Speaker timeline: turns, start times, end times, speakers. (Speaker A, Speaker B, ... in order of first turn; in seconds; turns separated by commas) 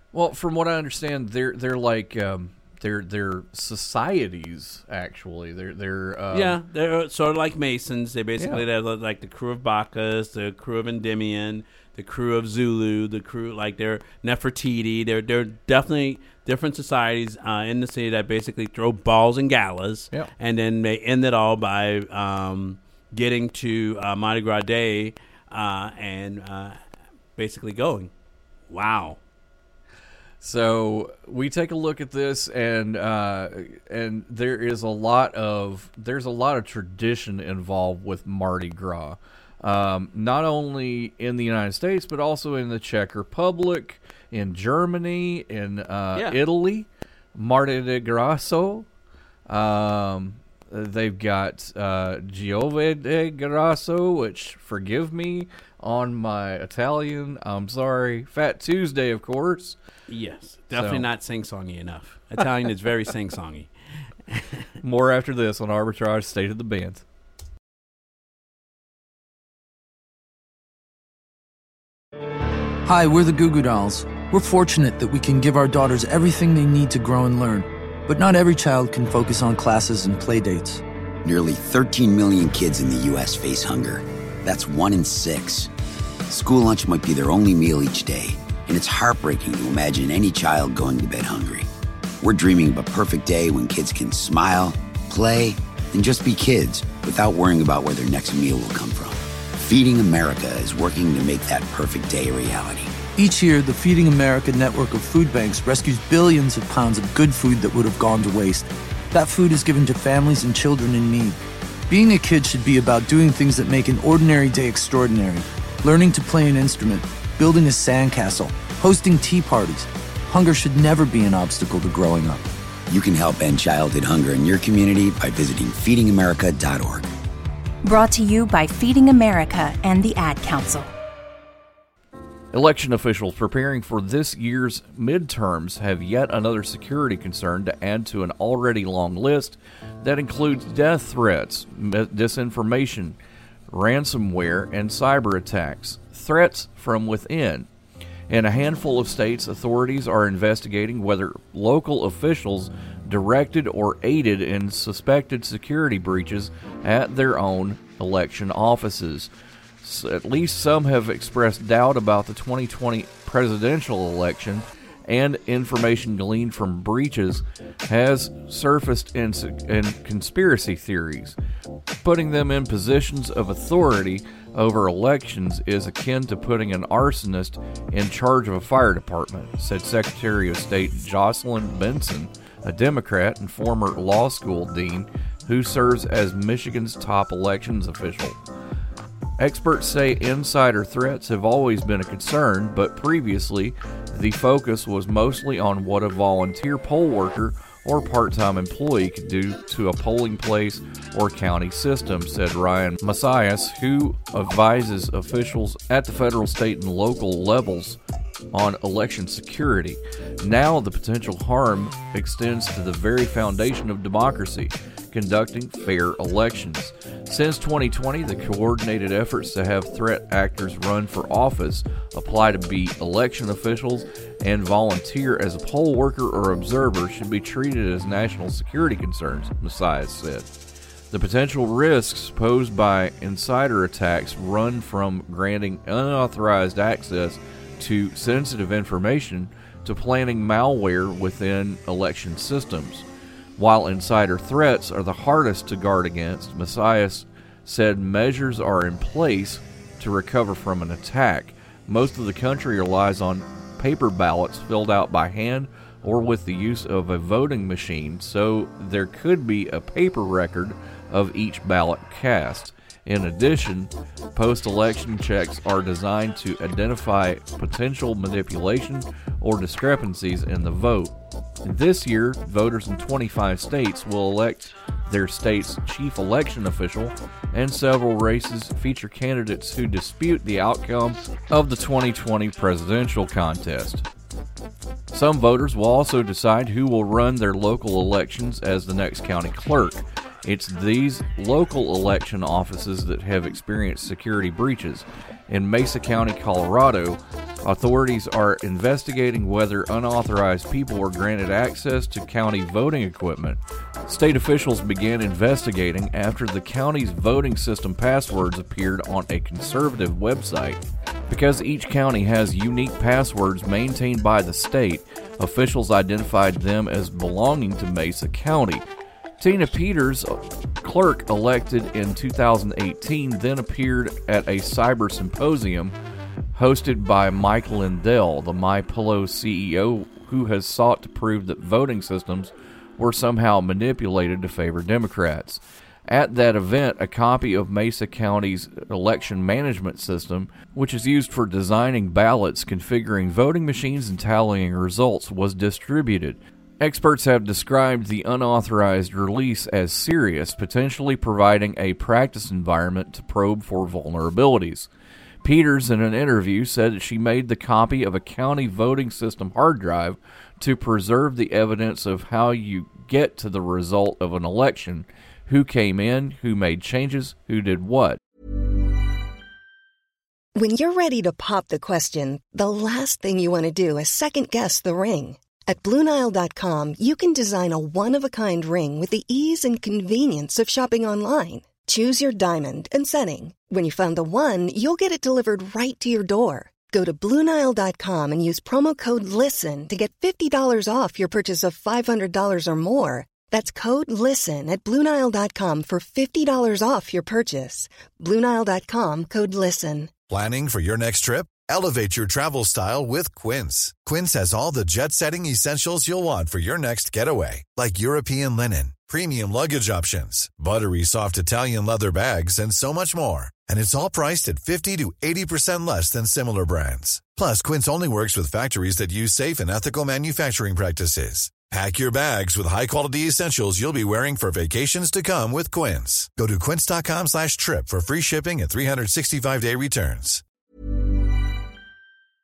Speaker A: 0.1-6.6, Speaker B: 6.3-26.8, Speaker A: 8.4-8.6, Speaker B: 27.4-28.1, Speaker B: 28.7-29.2, Speaker A: 30.4-48.9, Speaker A: 49.5-59.8, Speaker B: 60.1-63.7, Speaker A: 60.7-61.1, Speaker B: 64.3-64.7, Speaker A: 64.8-67.0, Speaker C: 72.9-80.8, Speaker D: 81.2-85.7, Speaker D: 86.3-91.7, Speaker D: 92.2-103.0, Speaker C: 103.2-111.4, Speaker C: 111.9-122.4, Speaker D: 122.9-127.1, Speaker E: 127.8-130.9, Speaker A: 132.5-143.2, Speaker A: 143.7-147.7, Speaker A: 148.3-159.3, Speaker A: 159.8-171.4, Speaker A: 172.0-188.4, Speaker A: 189.4-208.0, Speaker A: 208.5-230.5, Speaker A: 231.1-243.1, Speaker A: 243.6-284.1, Speaker A: 285.1-318.8, Speaker A: 319.4-325.9, Speaker A: 326.6-354.9, Speaker A: 355.4-368.2, Speaker F: 370.6-400.1, Speaker G: 400.3-430.4